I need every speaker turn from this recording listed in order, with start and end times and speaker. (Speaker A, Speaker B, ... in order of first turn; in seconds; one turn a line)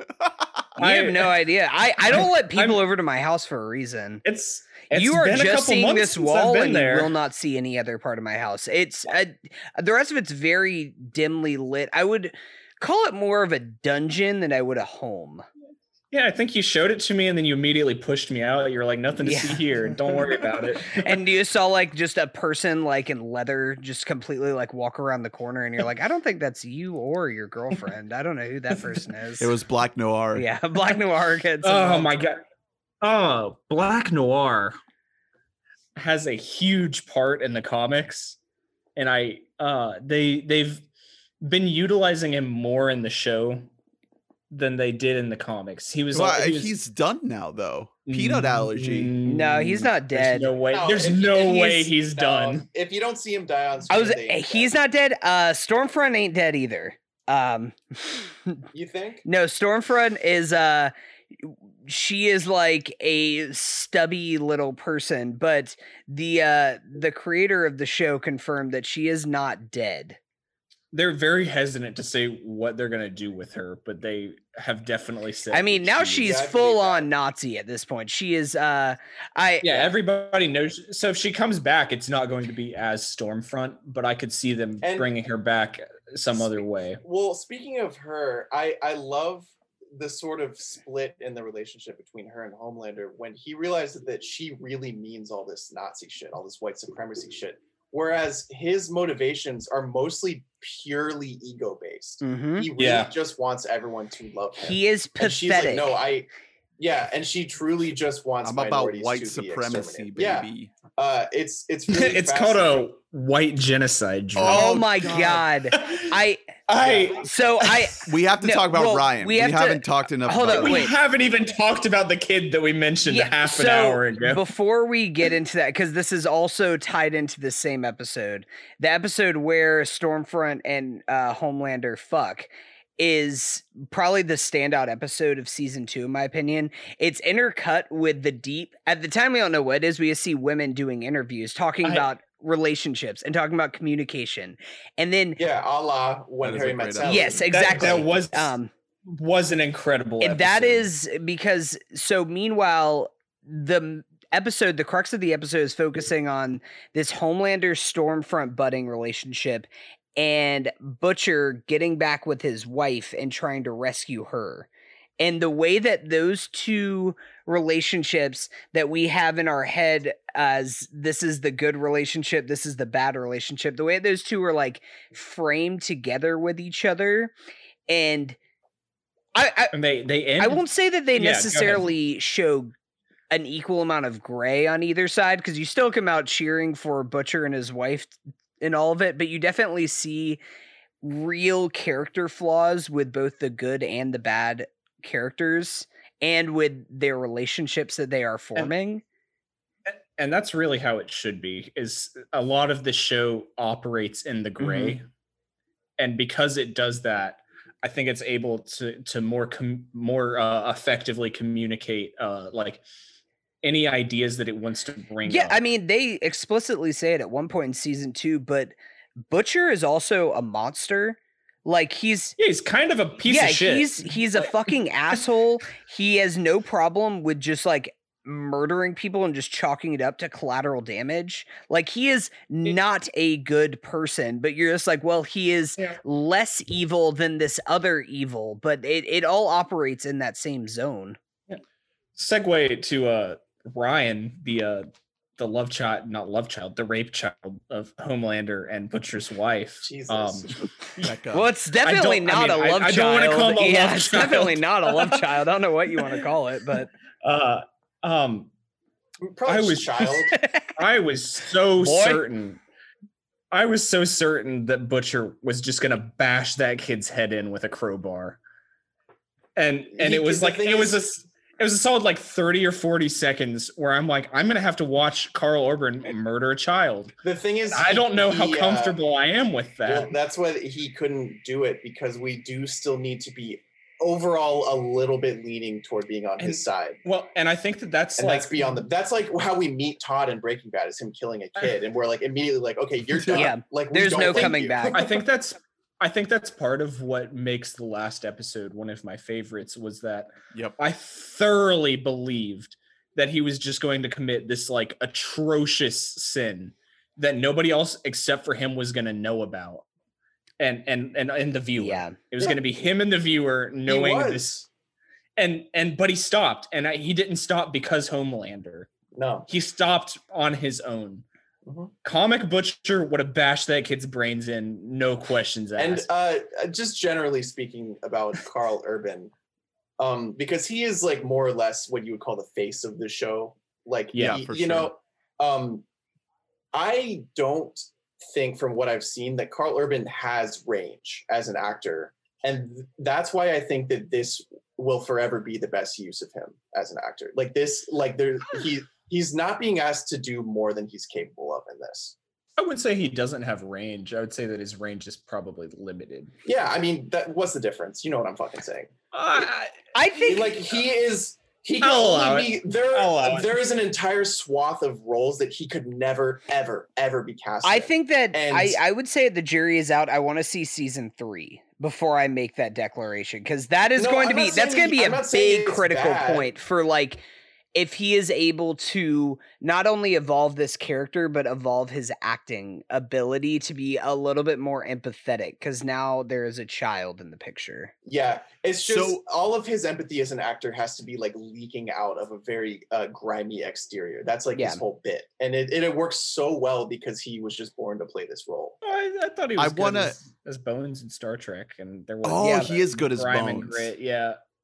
Speaker A: 0.2-0.6
Speaker B: 0.8-1.4
Speaker C: 0.8-4.2
Speaker B: 2.0-2.8
Speaker B: 4.2-7.2
Speaker C: 4.9-15.4
Speaker B: 16.1-21.2
Speaker C: 19.2-29.5
Speaker A: 29.4-30.5
Speaker C: 30.4-32.2
Speaker B: 31.6-32.4
Speaker B: 33.0-34.8
Speaker B: 36.0-38.4
Speaker B: 39.0-40.9
Speaker B: 41.4-43.7
Speaker B: 44.5-46.7
Speaker A: 46.1-49.1
Speaker B: 48.1-52.7
Speaker C: 49.2-50.5
Speaker D: 50.7-54.7
Speaker C: 53.9-58.6
Speaker D: 58.7-59.2
Speaker C: 59.2-70.2
Speaker B: 70.9-76.2
Speaker C: 75.5-79.9
Speaker D: 76.1-77.1
Speaker B: 79.6-87.0
Speaker D: 84.8-85.1
Speaker D: 86.3-106.3
Speaker C: 102.2-102.7
Speaker B: 102.8-103.1
Speaker C: 104.6-106.0
Speaker D: 106.8-112.9
Speaker A: 108.4-110.7
Speaker B: 111.9-116.2
Speaker A: 114.3-115.5
Speaker C: 114.4-116.5
Speaker B: 116.7-118.0
Speaker D: 116.8-117.1
Speaker C: 117.1-120.9
Speaker A: 118.0-120.9
Speaker B: 120.5-124.4
Speaker C: 123.1-145.4
Speaker D: 145.4-148.1
Speaker A: 146.4-147.5
Speaker C: 147.0-148.7
Speaker B: 147.5-150.9
Speaker C: 150.2-164.7
Speaker C: 165.2-177.3
Speaker C: 177.9-178.4
Speaker C: 179.3-179.8
Speaker B: 179.7-180.6
Speaker C: 180.4-182.7
Speaker B: 181.2-181.9
Speaker C: 183.3-190.4
Speaker C: 191.0-199.0
Speaker B: 199.9-205.1
Speaker C: 204.6-205.0
Speaker B: 206.0-212.8
Speaker B: 213.6-215.6
Speaker C: 215.2-218.8
Speaker C: 219.3-222.4
Speaker B: 222.4-224.6
Speaker C: 223.2-241.2
Speaker B: 242.2-251.2
Speaker D: 249.8-250.7
Speaker A: 251.0-251.5
Speaker C: 251.3-256.9
Speaker B: 251.8-255.2
Speaker B: 257.2-258.5
Speaker D: 259.2-260.4
Speaker B: 259.5-262.6
Speaker C: 260.3-260.7
Speaker C: 261.8-262.2
Speaker B: 263.5-268.4
Speaker B: 269.6-277.1
Speaker D: 270.0-271.1
Speaker D: 277.2-279.0
Speaker B: 277.7-280.1
Speaker D: 279.9-287.0
Speaker B: 286.4-288.8
Speaker D: 288.2-295.2
Speaker A: 293.1-293.5
Speaker C: 293.3-295.0
Speaker B: 294.4-309.9
Speaker B: 310.6-314.7
Speaker C: 311.8-312.1
Speaker D: 313.9-314.5
Speaker B: 315.4-318.9
Speaker D: 319.1-319.5
Speaker B: 319.5-321.2
Speaker D: 321.7-321.9
Speaker B: 322.0-326.1
Speaker D: 325.8-329.3
Speaker D: 330.0-335.8
Speaker B: 334.1-334.4
Speaker A: 334.2-334.9
Speaker D: 336.7-352.1
Speaker B: 352.6-356.3
Speaker D: 356.4-358.9
Speaker B: 359.1-359.8
Speaker C: 359.9-360.6
Speaker D: 360.2-368.8
Speaker B: 361.8-363.6
Speaker C: 367.6-377.2
Speaker D: 374.0-376.5
Speaker C: 377.8-387.9
Speaker D: 388.1-398.8
Speaker A: 388.9-389.2
Speaker C: 394.6-394.8
Speaker B: 398.8-404.4
Speaker A: 399.6-400.2
Speaker A: 402.2-403.9
Speaker C: 402.4-402.7